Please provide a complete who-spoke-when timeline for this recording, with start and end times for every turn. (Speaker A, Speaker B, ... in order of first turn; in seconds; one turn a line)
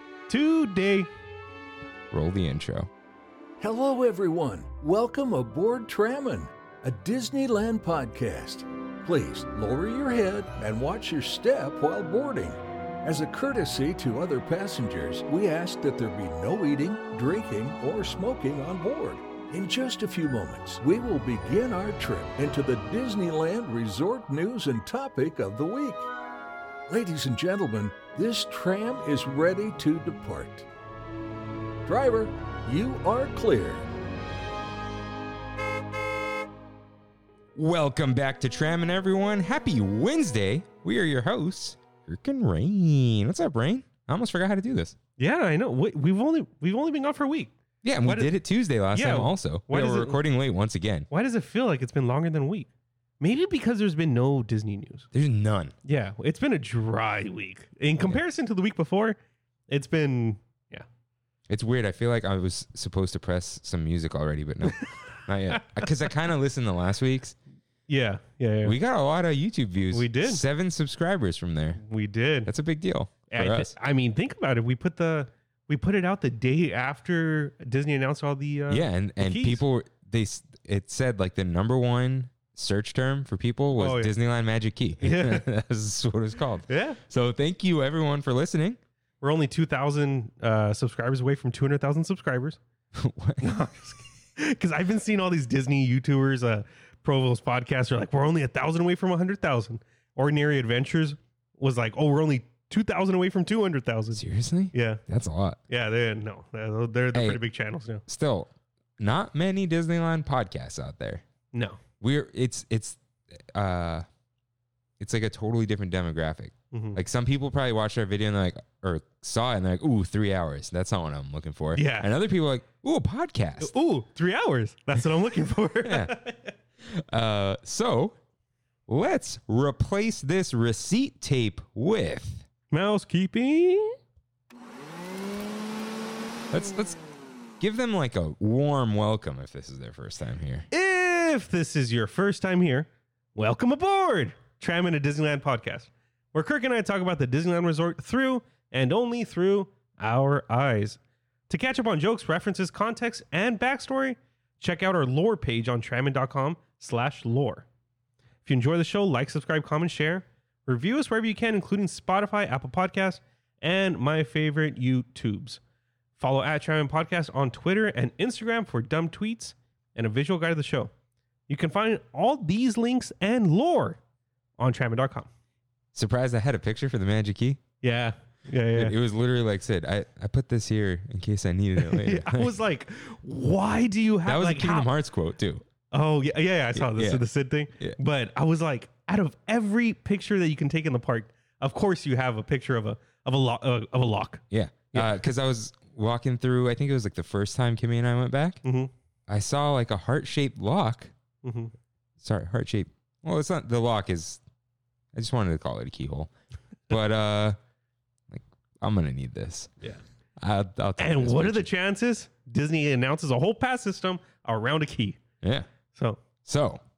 Speaker A: 0.3-1.1
Speaker B: 2.1-2.9
Speaker C: 3.6-26.1
Speaker C: 26.9-30.7
Speaker C: 31.8-33.9
Speaker B: 37.5-44.9
Speaker A: 45.2-47.5
Speaker B: 47.8-51.1
Speaker A: 48.0-48.4
Speaker A: 48.9-50.2
Speaker A: 51.1-52.7
Speaker A: 53.2-55.1
Speaker B: 55.1-55.7
Speaker A: 55.8-59.2
Speaker A: 59.7-60.9
Speaker B: 61.5-67.3
Speaker A: 67.9-68.7
Speaker B: 68.6-71.8
Speaker A: 69.9-70.4
Speaker A: 71.8-72.5
Speaker B: 72.5-73.7
Speaker A: 73.3-79.6
Speaker B: 78.7-88.8
Speaker A: 83.8-84.1
Speaker A: 85.0-85.5
Speaker A: 86.7-87.0
Speaker A: 89.2-92.6
Speaker B: 93.0-93.5
Speaker A: 93.4-105.0
Speaker B: 104.1-105.6
Speaker A: 105.7-108.0
Speaker B: 107.1-107.4
Speaker B: 108.1-111.2
Speaker A: 111.5-111.8
Speaker B: 112.0-114.0
Speaker B: 115.0-123.7
Speaker A: 116.7-117.0
Speaker A: 121.7-122.1
Speaker A: 123.6-126.5
Speaker B: 125.8-126.1
Speaker B: 126.8-128.2
Speaker B: 128.9-132.4
Speaker A: 132.7-134.0
Speaker B: 136.5-137.0
Speaker B: 137.6-140.7
Speaker A: 140.7-157.6
Speaker A: 158.4-165.6
Speaker A: 166.2-170.9
Speaker A: 171.5-174.0
Speaker A: 174.6-175.3
Speaker B: 175.9-177.6
Speaker A: 177.8-178.9
Speaker B: 178.7-182.5
Speaker A: 181.8-184.9
Speaker B: 184.2-185.6
Speaker A: 185.9-195.2
Speaker B: 186.7-187.2
Speaker B: 194.5-198.6
Speaker A: 198.6-198.9
Speaker B: 199.3-201.1
Speaker A: 201.4-201.7
Speaker B: 202.2-204.4
Speaker B: 205.1-206.3
Speaker B: 206.9-207.6
Speaker B: 208.3-209.7
Speaker B: 210.4-211.7
Speaker A: 211.0-215.2
Speaker B: 215.4-215.7
Speaker A: 215.9-216.2
Speaker B: 216.4-216.8